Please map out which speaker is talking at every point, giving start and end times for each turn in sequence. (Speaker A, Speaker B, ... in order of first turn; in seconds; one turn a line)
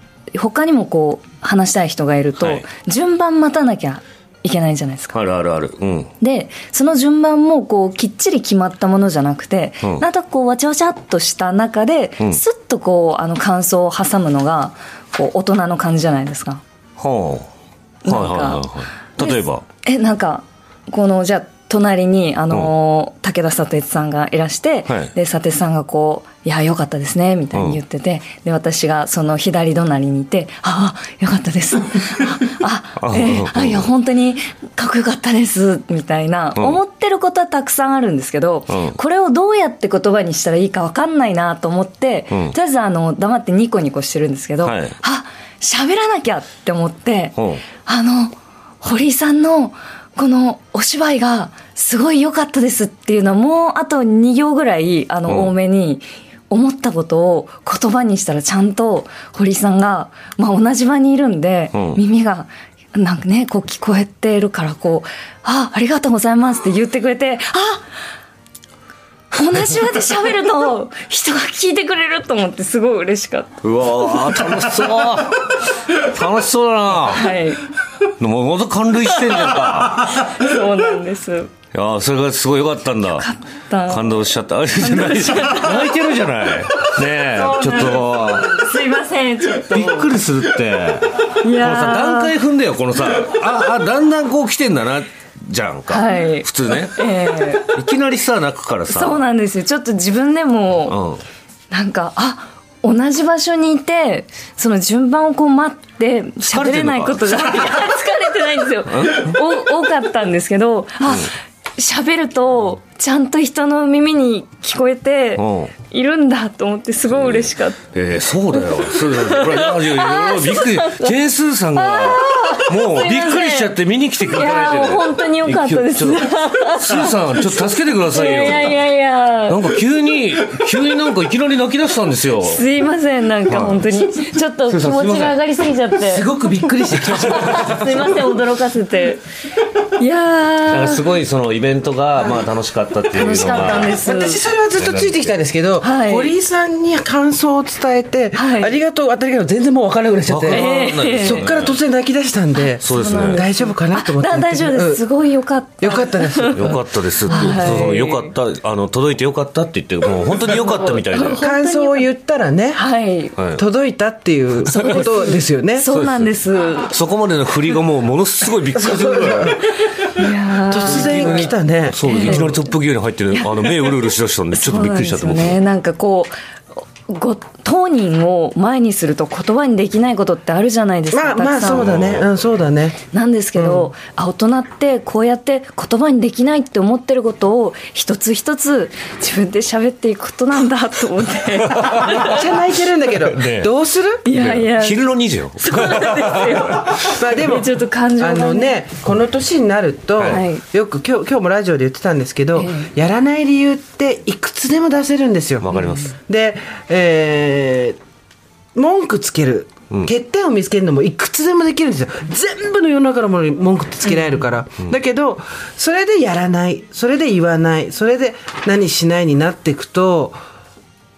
Speaker A: 0.3-5.2
Speaker B: 2.4-2.6
Speaker B: 5.1-6.1
Speaker A: 6.2-16.6
Speaker B: 17.0-17.5
Speaker A: 18.0-67.8
Speaker B: 18.1-19.6
Speaker B: 27.5-27.8
Speaker B: 33.0-33.9
Speaker B: 38.7-39.0
Speaker B: 44.6-44.9
Speaker B: 47.4-47.6
Speaker B: 55.3-55.5
Speaker B: 61.7-62.0
Speaker A: 69.3-74.5
Speaker B: 73.6-77.4
Speaker A: 77.0-77.7
Speaker B: 78.2-80.2
Speaker A: 80.0-81.5
Speaker B: 81.7-83.2
Speaker A: 83.2-86.0
Speaker B: 83.9-88.7
Speaker A: 87.2-90.1
Speaker B: 89.7-97.0
Speaker A: 91.4-92.3
Speaker A: 95.9-97.7
Speaker B: 97.6-99.2
Speaker A: 98.9-101.0
Speaker B: 100.8-101.2
Speaker A: 101.7-117.8
Speaker B: 106.4-107.9
Speaker B: 108.9-109.3
Speaker B: 115.4-115.7
Speaker B: 117.1-128.8
Speaker A: 118.5-121.2
Speaker A: 121.8-129.6
Speaker B: 129.5-132.6
Speaker A: 132.4-136.3
Speaker B: 133.5-133.9
Speaker B: 134.7-135.4
Speaker C: 136.0-137.9
Speaker A: 137.1-139.2
Speaker B: 137.4-137.7
Speaker A: 140.0-141.1
Speaker B: 140.7-144.0
Speaker A: 143.1-144.4
Speaker C: 143.5-155.1
Speaker B: 144.8-145.3
Speaker A: 145.8-146.3
Speaker A: 148.3-148.8
Speaker B: 150.3-151.8
Speaker A: 150.5-151.7
Speaker A: 152.6-158.3
Speaker B: 152.8-153.4
Speaker C: 155.8-156.8
Speaker B: 156.6-161.4
Speaker A: 160.7-162.1
Speaker C: 161.4-162.8
Speaker A: 162.7-163.4
Speaker C: 163.5-165.9
Speaker A: 164.6-166.9
Speaker B: 165.9-166.3
Speaker B: 166.9-169.6
Speaker C: 168.8-169.6
Speaker A: 170.1-171.5
Speaker C: 170.7-172.4
Speaker B: 170.8-175.6
Speaker A: 172.0-172.7
Speaker A: 173.3-182.0
Speaker C: 181.1-183.0
Speaker B: 181.7-182.2
Speaker A: 183.1-192.4
Speaker C: 183.6-183.9
Speaker C: 192.0-194.2
Speaker B: 193.3-193.7
Speaker A: 194.2-198.8
Speaker B: 194.3-196.7
Speaker C: 196.8-207.9
Speaker B: 200.2-200.4
Speaker A: 200.2-200.6
Speaker A: 202.6-202.9
Speaker B: 205.6-206.1
Speaker C: 208.8-220.4